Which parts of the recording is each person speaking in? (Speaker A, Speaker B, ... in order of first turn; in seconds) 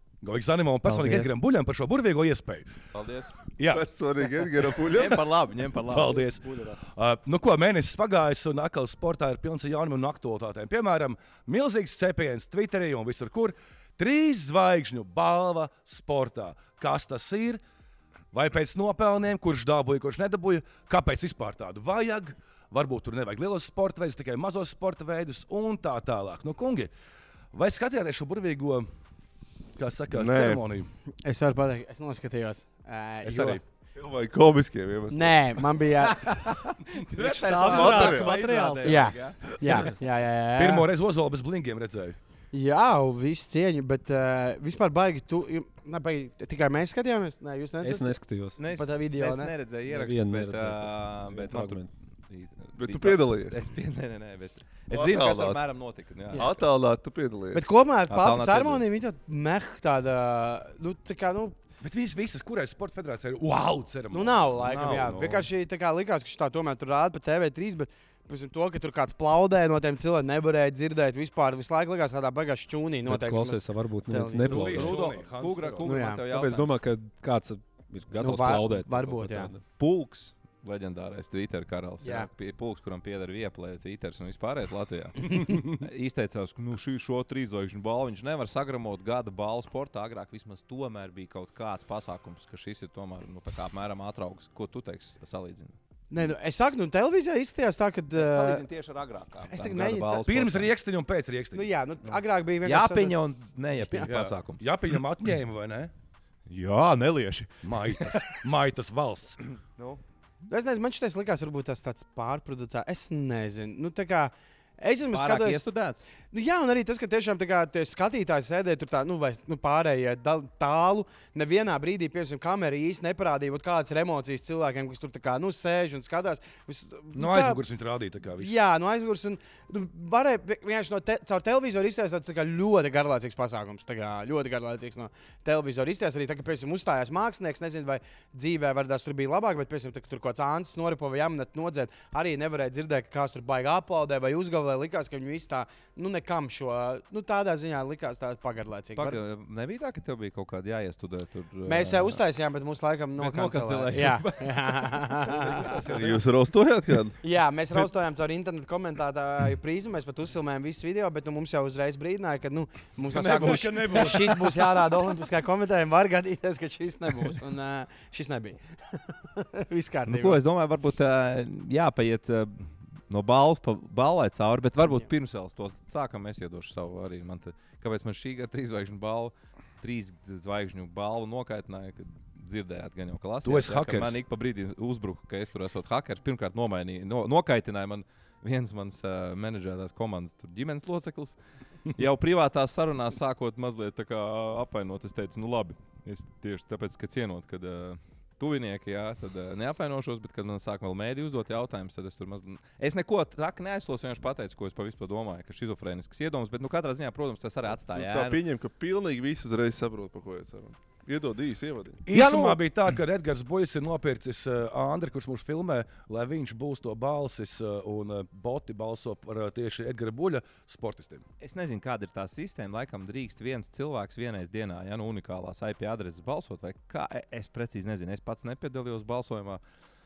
Speaker A: 0.2-2.7, 3.5-3.9, 5.9-17.6, 18.3-26.9, 27.5-28.9, 29.8-30.9, 33.2-33.6, 36.8-37.5, 39.5-39.9, 40.5-42.2, 61.8-65.5, 74.4-75.9, 100.2-101.7, 104.0-105.9, 107.6-109.4, 127.1-128.6, 155.3-156.2, 163.1-164.5, 183.4-184.2, 212.1-221.2
Speaker B: 0.8-1.3, 2.9-3.3, 4.8-6.8, 36.0-39.5, 48.6-56.5, 58.1-58.8, 74.4-76.8, 79.8-95.8, 98.1-100.7, 102.6-104.6, 106.5-108.3, 109.8-110.0, 115.1-116.0, 148.9-152.2, 153.2-155.3, 163.2-164.3, 170.1-191.3, 191.9-208.4, 212.1-212.6, 221.4-229.6
Speaker C: 3.7-5.2, 30.1-30.6, 33.9-35.8, 37.6-38.4, 52.8-53.6, 54.9-55.6, 56.3-57.6, 155.9-157.2, 207.8-212.0
Speaker D: 31.2-33.6, 35.1-36.4, 38.8-40.9, 42.5-49.5, 57.5-61.6, 64.1-75.0, 75.8-76.2, 78.2-79.5, 82.0-82.3, 96.1-98.6, 99.4-100.3, 101.5-103.2, 103.8-104.1, 110.5-115.6, 116.3-127.6, 128.4-149.2, 151.6-155.8, 157.2-170.4
Speaker E: 37.2-39.1, 47.8-48.6, 49.9-51.9, 73.0-75.0, 76.2-79.6